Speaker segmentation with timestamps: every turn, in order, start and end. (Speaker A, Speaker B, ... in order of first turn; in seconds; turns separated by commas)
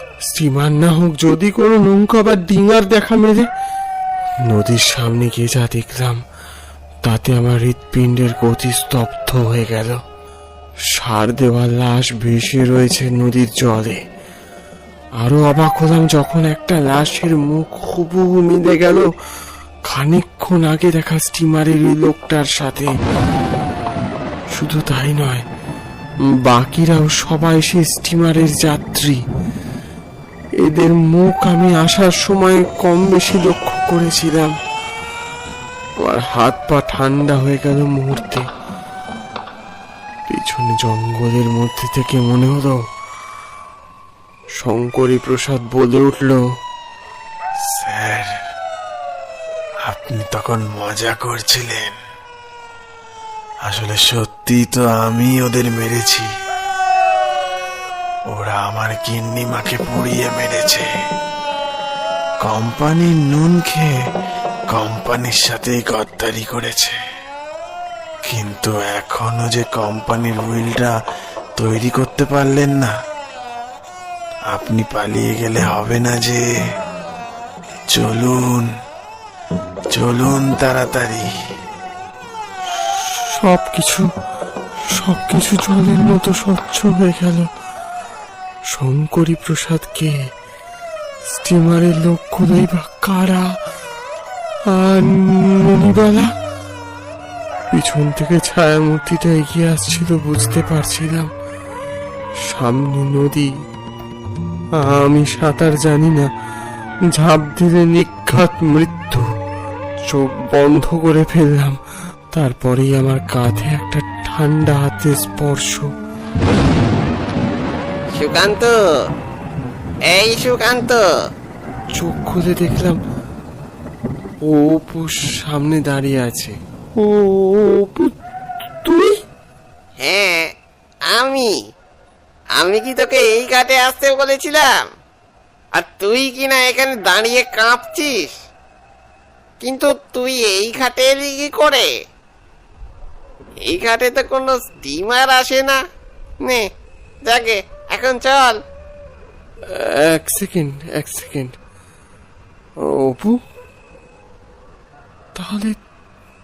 Speaker A: 0.3-3.5, Speaker A: 4.5-6.2, Speaker A: 7.0-10.0, Speaker A: 10.9-14.0, Speaker A: 15.2-19.1, Speaker A: 19.9-22.9, Speaker A: 24.5-25.5, Speaker A: 26.5-29.2, Speaker A: 30.6-34.5, Speaker A: 36.0-38.5, Speaker A: 40.3-42.8, Speaker A: 44.6-46.4, Speaker B: 47.7-48.4, Speaker B: 49.9-52.0, Speaker B: 53.7-56.3, Speaker B: 58.3-60.9, Speaker B: 62.4-63.9, Speaker B: 64.7-67.0, Speaker B: 68.3-70.9, Speaker B: 71.6-72.9, Speaker B: 74.5-76.4, Speaker B: 77.9-78.7, Speaker B: 79.9-81.3, Speaker A: 83.0-84.1, Speaker A: 84.9-87.5, Speaker A: 88.7-90.1, Speaker A: 91.3-93.5, Speaker A: 94.7-96.3, Speaker A: 97.7-101.3, Speaker A: 102.5-103.5, Speaker A: 104.8-106.3, Speaker A: 107.1-109.3, Speaker A: 110.1-111.8, Speaker A: 112.3-115.9, Speaker C: 118.1-118.8, Speaker C: 120.1-121.0, Speaker A: 122.0-123.0, Speaker A: 124.5-128.1, Speaker A: 128.8-129.1, Speaker C: 130.0-130.5, Speaker C: 131.1-131.5, Speaker C: 132.6-134.7, Speaker C: 135.8-138.3, Speaker C: 139.6-141.9, Speaker C: 143.7-145.8, Speaker C: 147.3-148.6, Speaker A: 149.7-151.5, Speaker A: 152.8-153.4, Speaker A: 155.4-155.8